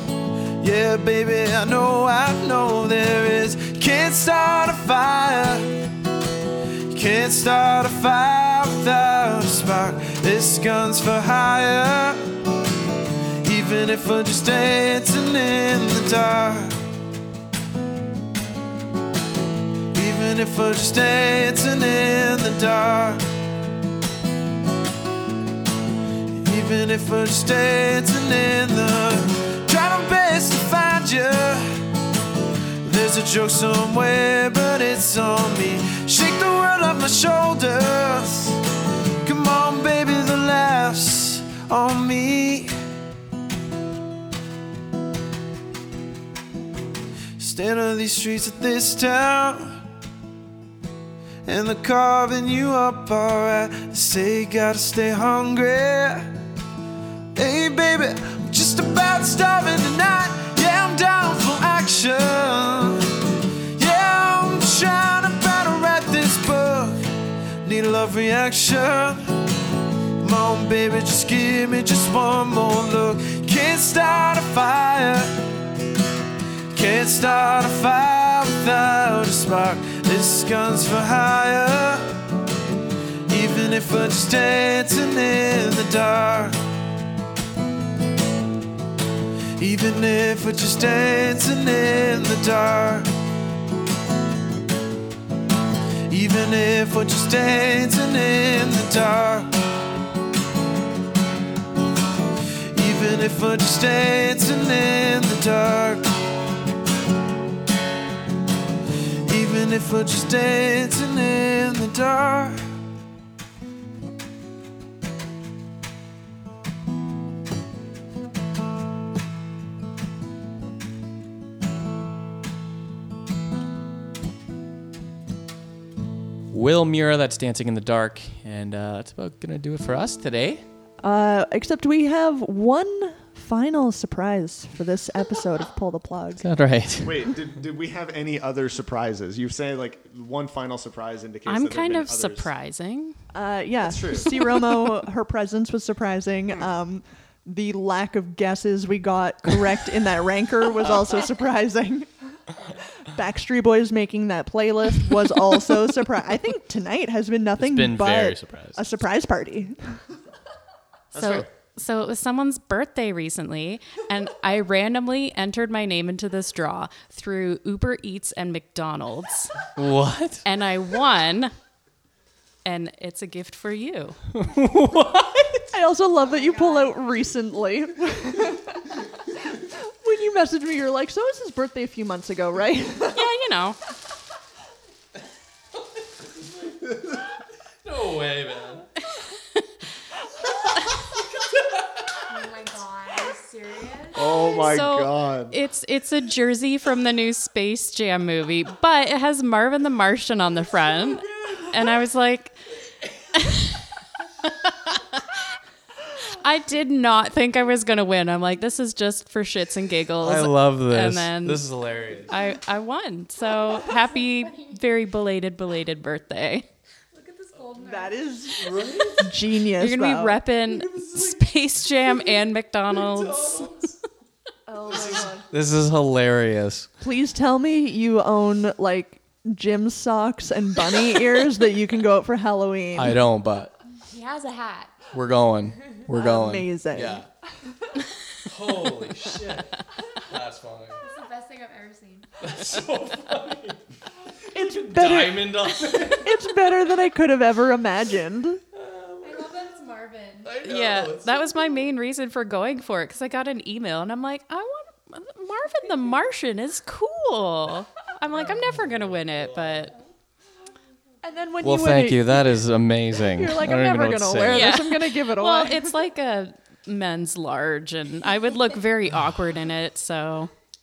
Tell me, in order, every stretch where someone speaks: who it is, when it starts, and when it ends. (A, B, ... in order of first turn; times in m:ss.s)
0:00.6-0:05.8 A
0:06.9-0:12.2 A
0:13.4-0:16.8 A
0:19.9-0:23.2 A
0:26.3-0:31.7 A
0:32.8-0:38.6 A
0:39.2-0:42.7 A
0:47.4-0:49.8 A
0:51.4-0:56.3 A
0:57.3-1:03.1 A
1:03.7-1:07.0 A
1:07.6-1:09.3 A
1:10.2-1:15.4 A
1:16.7-1:22.2 A
1:23.3-1:26.6 A
1:29.6-1:33.1 A
1:36.1-1:39.5 A
1:42.7-1:46.2 A
1:49.2-1:52.6 A
2:06.5-2:10.6 B
2:11.0-2:16.4 C
2:16.4-2:17.3 B
2:17.0-2:22.5 D
2:21.5-2:23.2 E
2:23.3-2:32.1 C
2:23.8-2:24.4 D
2:33.0-2:40.0 C
2:37.6-2:38.9 B
2:41.1-2:41.5 D
2:41.1-2:49.5 E
2:49.8-2:50.4 B
2:50.4-2:51.5 E
2:52.6-2:54.2 E
2:54.4-2:55.6 B
2:55.7-2:58.7 C
2:59.6-3:03.2 C
3:03.1-3:03.8 E
3:06.8-3:07.2 B
3:07.8-3:08.9 B
3:10.7-3:11.0 E
3:12.3-3:14.3 F
3:14.1-3:15.5 D
3:14.5-3:22.6 E
3:23.3-3:23.8 E
3:24.4-3:25.2 E
3:26.3-3:31.7 E
3:30.2-3:32.3 B
3:32.2-3:36.6 E
3:37.7-3:40.4 C
3:38.6-3:39.2 B
3:39.7-3:44.0 E
3:40.7-3:41.2 B
3:43.4-3:43.7 B
3:44.7-3:45.4 C
3:45.1-3:46.9 B
3:47.0-3:53.2 C
3:53.0-3:53.7 B
3:54.0-3:54.9 F
3:55.1-3:57.2 B
3:56.1-3:57.2 C
3:58.5-4:01.0 B
4:01.0-4:02.3 F
4:02.4-4:03.8 B
4:04.5-4:08.6 C
4:04.5-4:06.4 B
4:08.7-4:09.6 B
4:09.2-4:10.4 F
4:10.4-4:11.8 B
4:10.6-4:19.9 E
4:21.2-4:22.6 C
4:21.6-4:24.7 B
4:23.2-4:26.0 C
4:24.5-4:30.5 E